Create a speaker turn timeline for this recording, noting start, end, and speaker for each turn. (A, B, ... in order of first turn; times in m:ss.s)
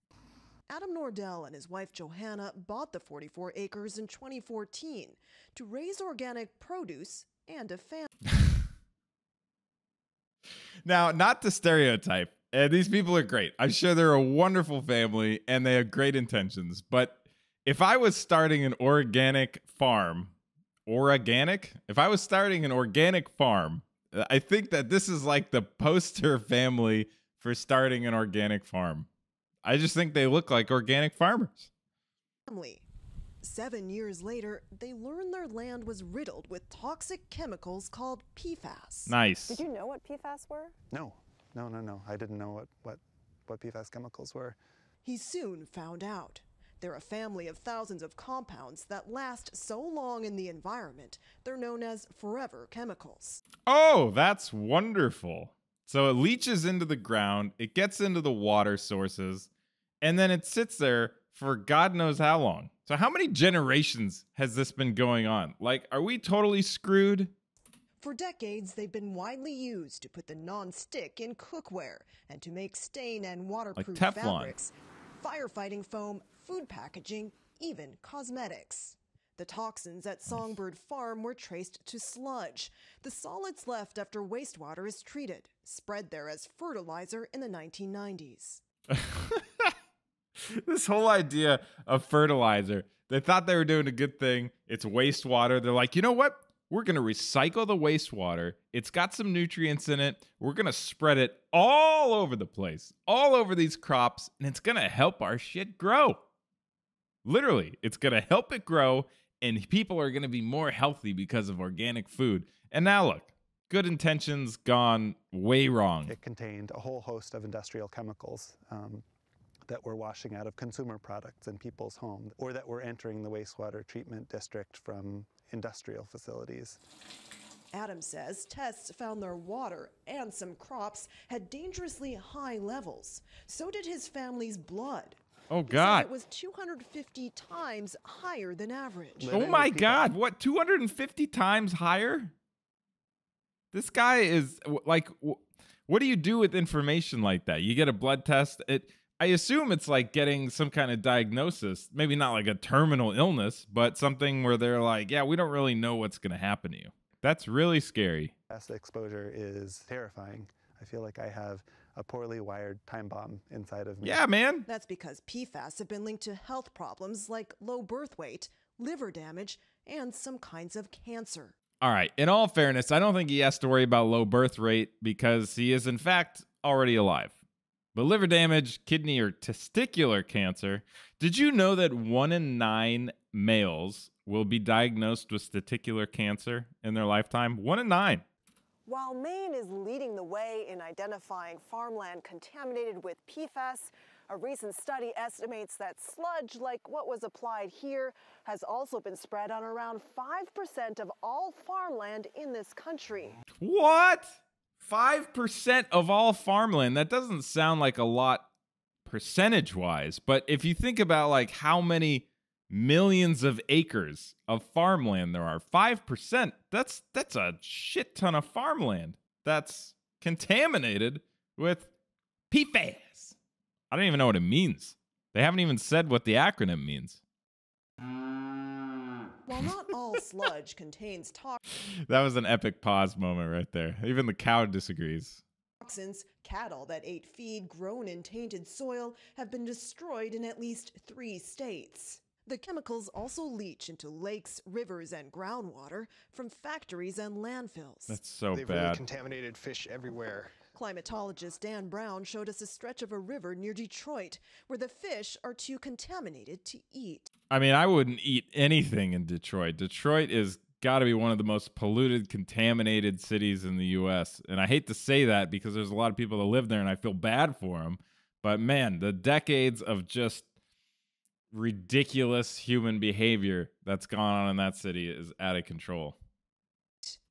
0:00.7-0:08.1 A
0:10.8-0:20.3 B
0:20.9-0:29.1 B
0:29.6-0:31.7 B
0:32.5-0:32.8 A
0:33.4-0:40.8 A
0:39.1-0:39.6 B
0:40.9-0:44.6 C
0:45.0-0:53.4 A
0:53.7-0:59.5 B
1:00.0-1:07.3 B
1:08.0-1:28.6 A
1:13.8-1:14.5 B
1:28.9-1:29.7 B
1:30.5-1:46.2 B
1:47.2-1:56.1 B
1:56.0-1:59.0 C
1:59.7-2:06.8 C
2:07.7-2:19.3 A
2:15.5-2:16.1 B
2:19.2-2:20.1 C
2:19.3-2:22.3 B
2:23.7-2:38.3 B
2:38.5-2:44.2 C
2:44.0-2:44.6 B
2:44.7-2:51.5 A
2:51.8-2:57.4 B
2:57.9-3:08.2 B
3:08.9-3:23.4 A
3:23.6-3:28.5 B
3:29.0-3:41.9 B
3:42.5-3:43.4 B
3:43.9-3:47.2 B
3:49.4-3:51.6 A
3:52.1-3:55.4 B
3:55.8-4:08.2 A
4:08.1-4:09.0 B
4:08.5-4:10.6 D
4:10.8-4:17.3 A
4:17.5-4:30.5 B
4:31.5-4:36.2 B